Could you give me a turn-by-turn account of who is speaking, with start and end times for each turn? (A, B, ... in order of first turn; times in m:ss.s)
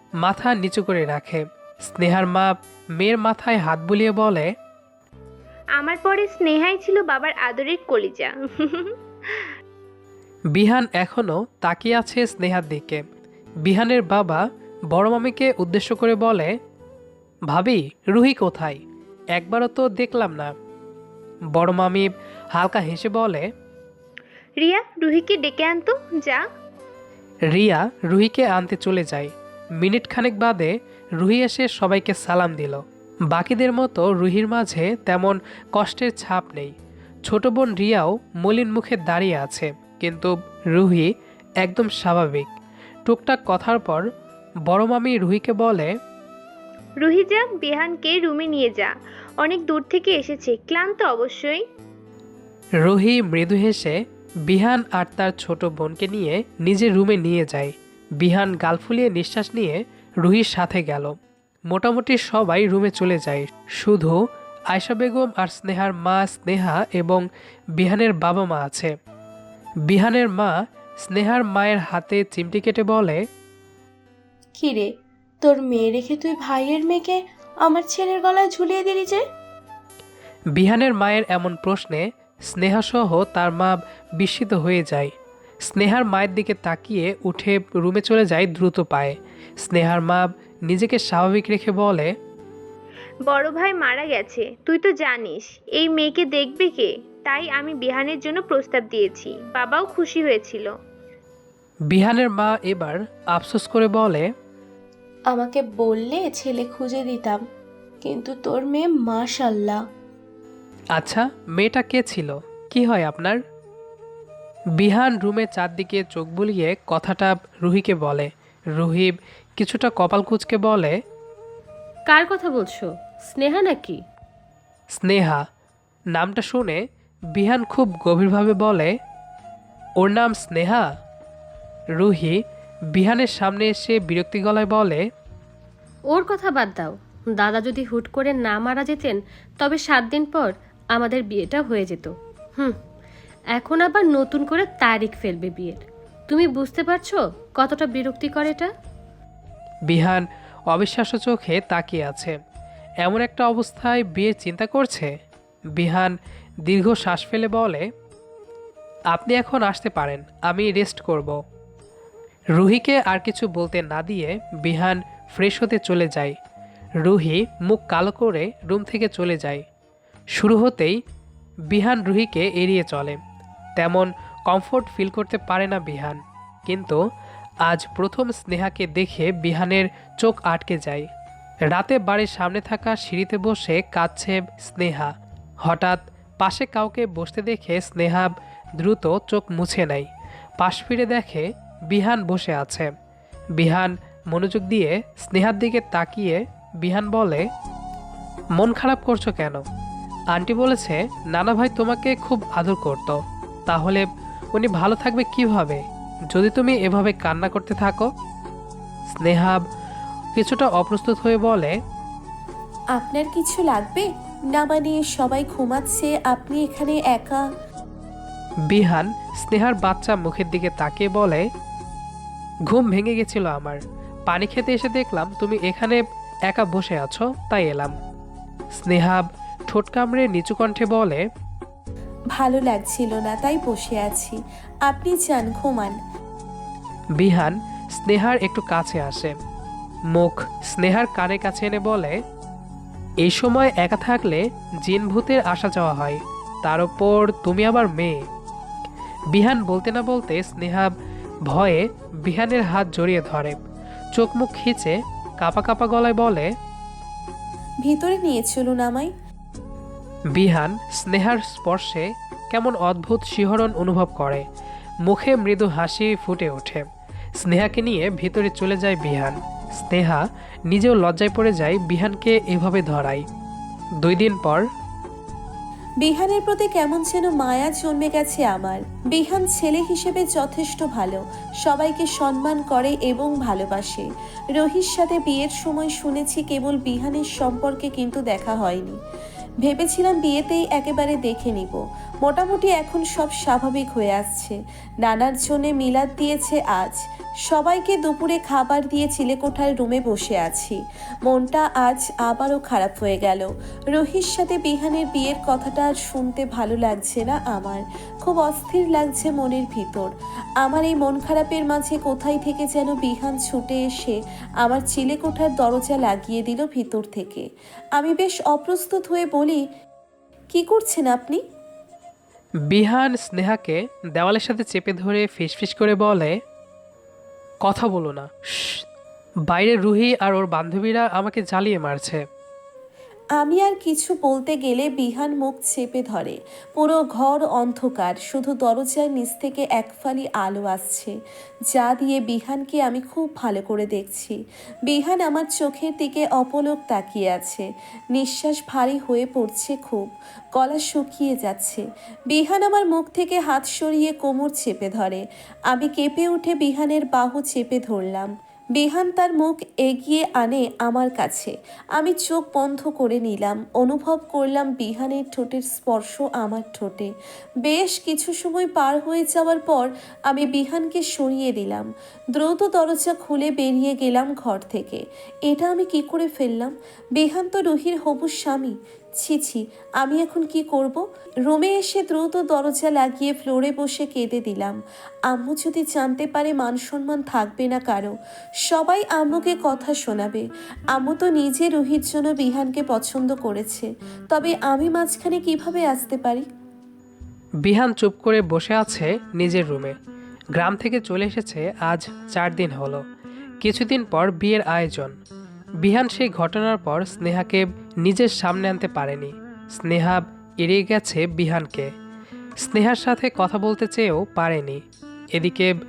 0:00.2-0:04.5 A
0:05.8-0:09.5 B
0:10.5-0:13.0 A
0:13.6-0:16.6 A
0:17.5-0:18.8 A
0:19.4-0:20.5 A
0:21.5-0:23.5 A
0:24.6-0:26.4 B
0:27.5-0:36.7 A
0:37.2-0:42.5 A
0:43.1-0:44.0 A
0:44.7-0:45.9 A
0:47.0-0:51.6 B
0:52.8-1:01.1 A
1:01.7-1:07.2 A
1:07.8-1:08.9 A
1:09.9-1:13.2 A
1:14.6-1:14.9 C
1:15.4-1:19.2 C
1:20.5-1:25.1 A
1:25.7-1:32.1 A
1:33.3-1:40.7 B
1:41.9-1:44.3 A
1:45.3-1:47.4 C
1:48.0-1:49.8 C
1:51.0-1:53.4 A
1:54.8-2:00.9 A
2:02.1-2:04.0 D
2:04.9-2:05.4 A
2:06.2-2:06.8 A
2:07.4-2:09.0 A
2:10.0-2:10.9 A
2:11.9-2:12.4 A
2:12.9-2:15.0 A
2:16.1-2:22.8 D
2:23.6-2:28.7 D
2:29.9-2:32.4 A
2:33.0-2:35.1 A
2:35.8-2:36.2 A
2:36.7-2:37.8 A
2:39.1-2:41.4 A
2:42.6-2:46.4 A
2:47.0-2:49.6 A
2:50.3-2:51.0 A
2:51.7-2:53.2 A
2:53.8-2:57.0 A
2:57.7-3:01.1 A
3:01.7-3:05.1 A
3:05.6-3:10.1 A
3:10.6-3:12.9 A
3:13.6-3:17.5 A
3:18.6-3:19.6 A
3:20.3-3:28.1 A
3:29.2-3:29.6 A
3:30.4-3:31.8 A
3:33.0-3:37.4 E
3:38.7-3:41.4 A
3:42.7-3:47.9 A
3:48.8-3:51.2 A
3:52.4-3:56.0 E
3:57.2-3:59.3 A
4:00.1-4:02.2 A
4:03.2-4:08.3 A
4:09.3-4:10.9 A
4:11.5-4:13.6 A
4:14.2-4:16.5 A
4:17.8-4:19.1 E
4:20.3-4:24.4 A
4:25.0-4:26.8 A
4:27.4-4:33.2 A
4:34.0-4:34.6 A
4:36.0-4:49.0 E
4:49.6-5:19.6 E
5:20.5-5:21.4 E
5:22.7-5:26.4 A
5:27.6-5:28.8 A
5:29.5-5:32.2 A
5:33.4-5:41.1 E
5:41.7-6:07.1 E
6:07.6-6:24.8 E
6:25.3-6:28.2 E
6:28.7-6:36.5 E
6:37.6-6:40.0 A
6:40.6-6:43.0 A
6:43.6-6:45.2 A
6:45.8-6:51.9 A
6:52.6-6:54.8 A
6:55.3-6:55.7 A